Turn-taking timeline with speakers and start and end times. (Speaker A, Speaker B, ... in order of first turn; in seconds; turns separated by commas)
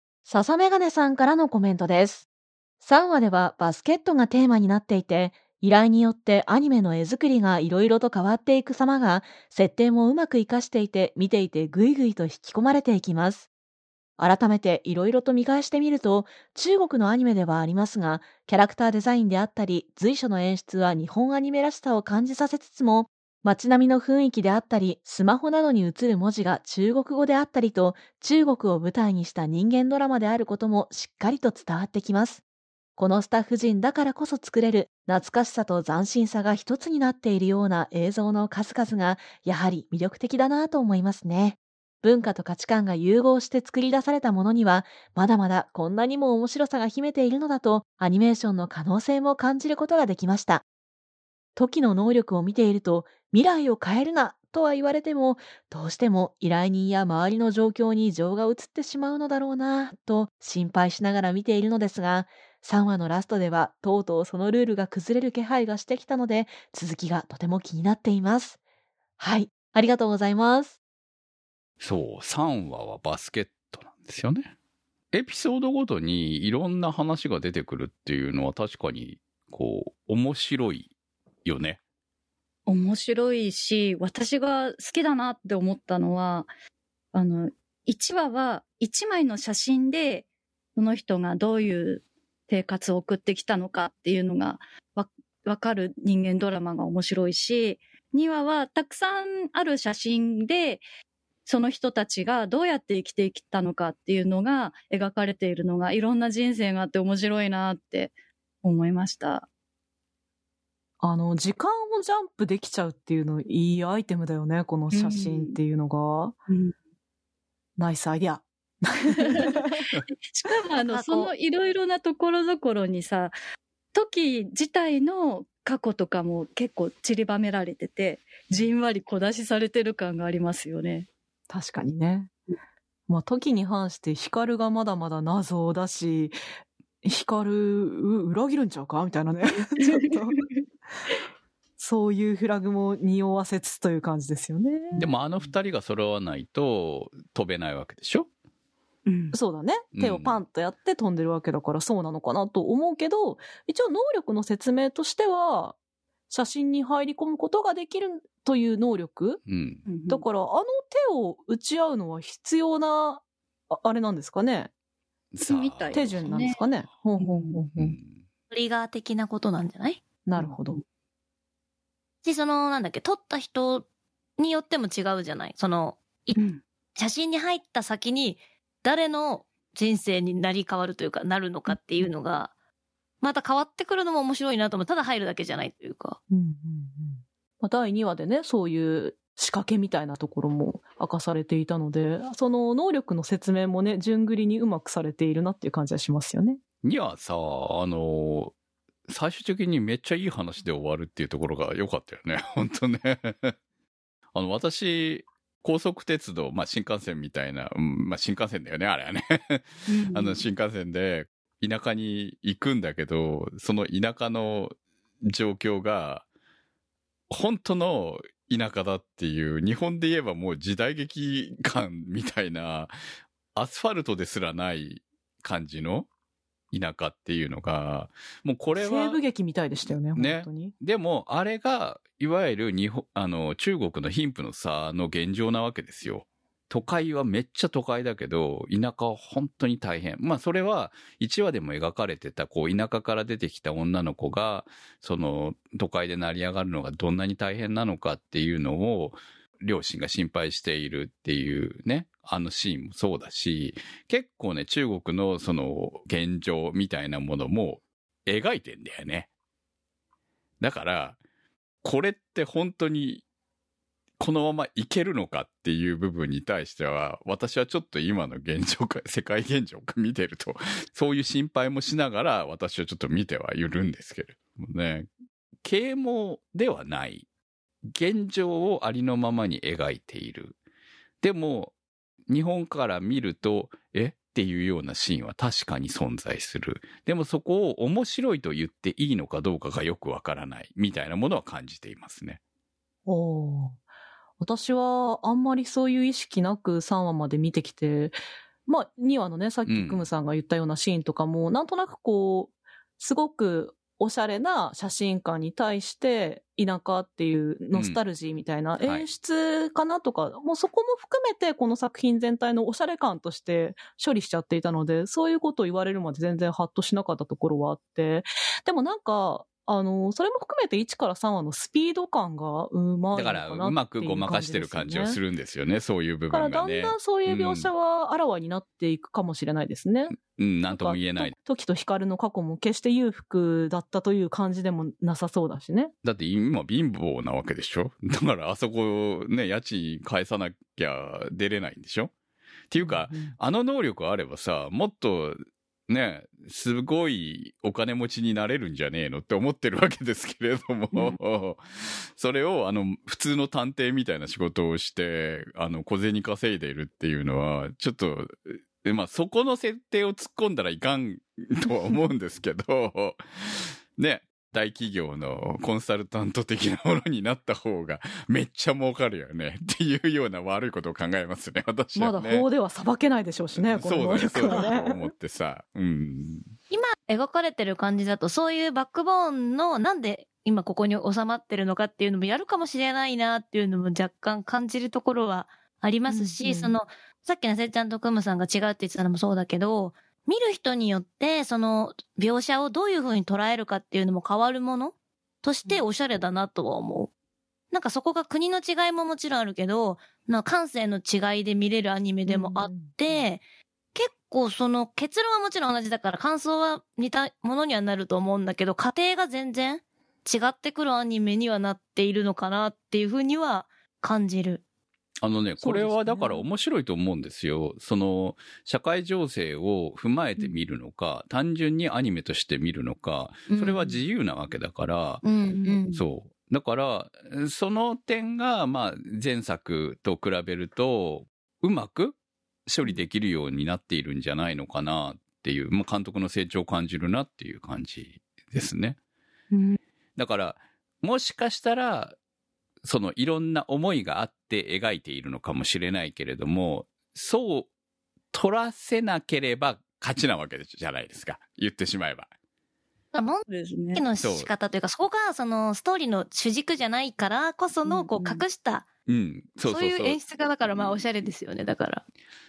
Speaker A: 0.2-2.2, Speaker A: 2.8-13.5, Speaker A: 14.2-32.4, Speaker A: 33.0-50.6, Speaker A: 51.5-68.6, Speaker A: 69.2-70.8, Speaker B: 71.8-74.5, Speaker B: 75.1-80.9, Speaker B: 81.4-81.8, Speaker C: 82.7-86.5, Speaker C: 87.1-100.8, Speaker C: 101.5-109.5, Speaker D: 111.0-116.4, Speaker C: 114.9-115.6, Speaker C: 116.5-116.7, Speaker D: 117.8-119.7, Speaker C: 119.2-123.4, Speaker E: 120.9-121.3, Speaker C: 123.9-131.1, Speaker D: 131.5-132.3, Speaker D: 133.1-136.4, Speaker D: 137.0-140.4, Speaker D: 141.8-145.1, Speaker B: 144.9-148.3, Speaker C: 149.1-149.3, Speaker D: 149.3-155.8, Speaker B: 149.9-150.4, Speaker D: 156.3-159.4, Speaker B: 159.5-159.8, Speaker C: 159.9-160.2, Speaker D: 160.1-164.7, Speaker B: 165.3-166.2, Speaker C: 165.4-166.6, Speaker D: 165.9-167.9, Speaker C: 167.2-167.7, Speaker B: 167.8-168.2, Speaker E: 168.5-170.0, Speaker D: 170.3-170.8, Speaker C: 170.4-170.8, Speaker E: 172.2-173.9, Speaker E: 174.4-176.4, Speaker C: 176.3-176.6, Speaker E: 176.9-182.5, Speaker E: 183.2-186.2, Speaker D: 186.3-196.6, Speaker B: 196.8-198.6, Speaker B: 199.1-203.6, Speaker B: 204.3-216.2, Speaker C: 209.9-210.4, Speaker B: 217.3-222.9, Speaker B: 223.6-226.1, Speaker B: 226.7-229.2, Speaker D: 228.8-230.7, Speaker B: 229.9-259.3, Speaker B: 260.6-261.2, Speaker B: 261.8-263.2, Speaker B: 264.2-275.1, Speaker B: 275.6-277.3, Speaker B: 277.9-280.6, Speaker B: 281.2-281.7, Speaker B: 282.3-292.4, Speaker D: 293.1-293.8, Speaker D: 294.4-298.1, Speaker D: 298.7-325.2, Speaker B: 299.7-300.1, Speaker B: 307.7-308.0, Speaker B: 323.1-327.7, Speaker D: 326.3-330.2, Speaker B: 330.2-331.3, Speaker D: 330.7-335.9, Speaker B: 336.0-342.1, Speaker B: 342.7-372.4, Speaker D: 342.8-343.3, Speaker D: 371.9-375.0, Speaker B: 373.6-376.5, Speaker E: 376.7-397.1, Speaker D: 386.1-386.7, Speaker E: 397.7-403.4, Speaker D: 402.3-403.2, Speaker E: 403.9-414.6, Speaker B: 415.2-425.2, Speaker D: 415.6-416.4, Speaker E: 423.5-423.9, Speaker E: 425.2-426.0, Speaker B: 425.9-439.0, Speaker C: 439.5-439.8, Speaker B: 440.1-442.2, Speaker B: 442.8-447.7, Speaker B: 448.3-452.3, Speaker E: 453.1-458.9, Speaker C: 453.5-454.0, Speaker B: 454.2-454.5, Speaker C: 457.9-458.4, Speaker B: 459.1-460.2, Speaker E: 459.6-462.0